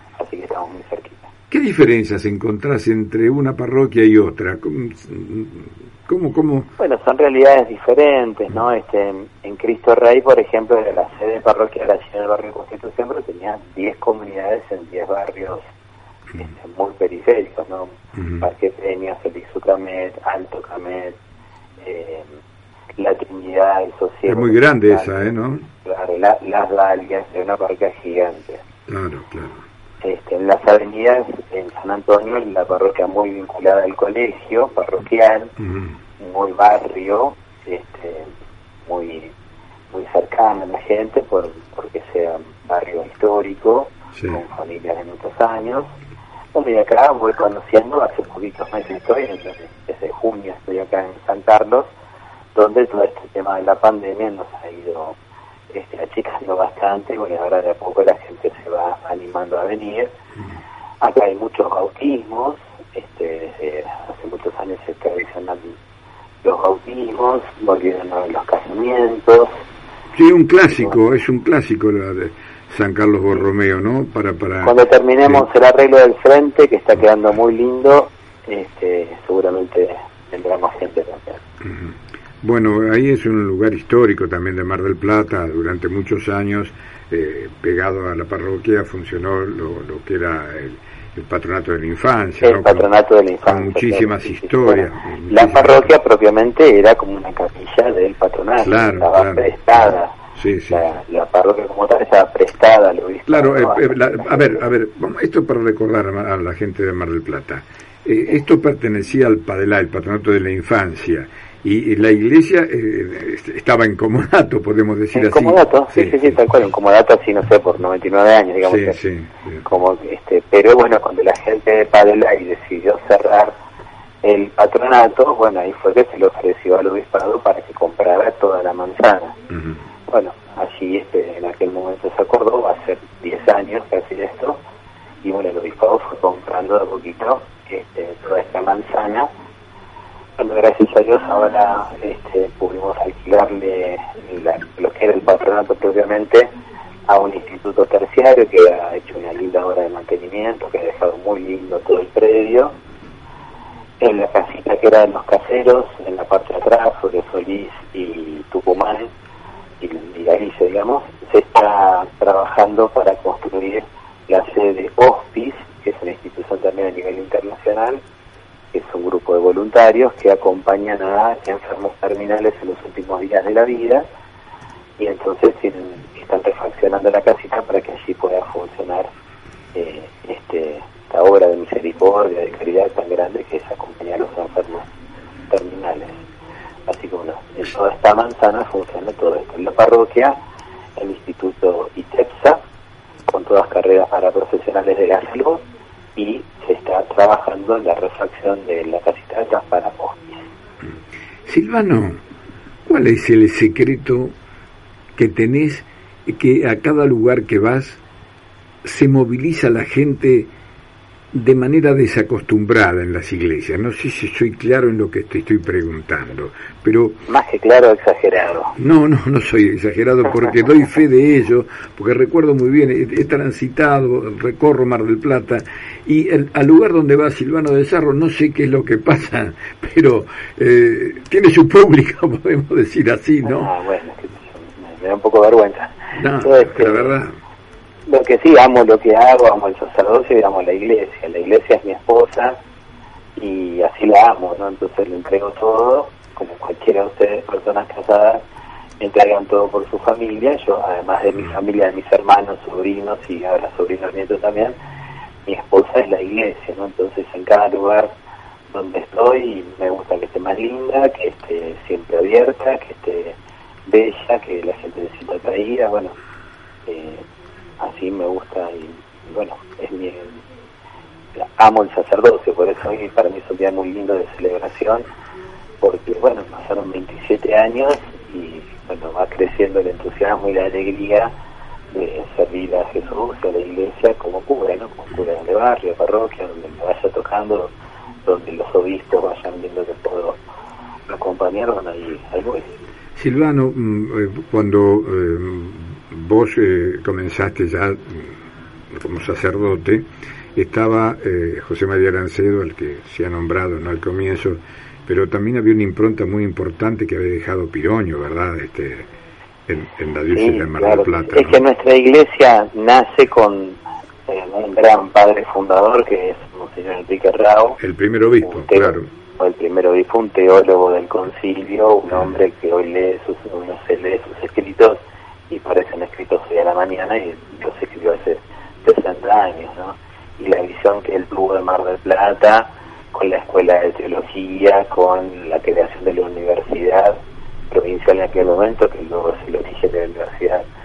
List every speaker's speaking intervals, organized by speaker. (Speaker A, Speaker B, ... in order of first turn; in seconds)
Speaker A: 0.2-1.3, 6.8-15.6, 16.4-21.1, 21.8-22.3, 23.0-28.6, 30.0-35.5, 36.2-38.3, 38.9-39.3, 39.9-45.9, 46.5-51.9, 52.5-55.2, 55.7-60.1, 61.0-65.8, 66.4-69.5, 74.6-81.4, 92.4-100.1, 100.7-104.6, 115.1-119.0, 119.7-123.5, 124.2-129.3, 130.1-134.6, 135.2-139.3, 140.4-146.5, 147.1-152.8, 154.0-159.1, 159.8-168.0, 168.7-174.0, 175.0-179.1, 179.8-184.9, 185.5-186.2, 186.9-190.4, 191.0-192.6, 193.3-195.6, 196.2-200.5, 217.3-218.7, 233.4-237.1, 238.1-242.6, 243.4-248.4, 249.0-254.8, 255.4-258.1, 258.7-266.2, 266.9-267.2, 267.8-270.4, 271.4-275.1, 275.8-281.3, 281.9-287.7, 288.2-290.4, 291.1-292.8, 310.3-317.8, 318.4-340.6
Speaker B: 1.5-6.7, 18.2-18.5, 24.3-25.7, 28.9-29.6, 35.6-36.0, 44.1-44.4, 70.1-75.5, 81.6-92.9, 93.4-95.9, 98.6-100.9, 103.3-116.4, 118.6-119.7, 129.5-129.8, 201.5-202.2, 202.9-204.3, 205.2-208.0, 208.8-210.5, 211.3-217.2, 218.8-233.7, 236.2-237.3, 293.2-298.4, 298.9-309.1, 309.7-311.6, 317.8-319.1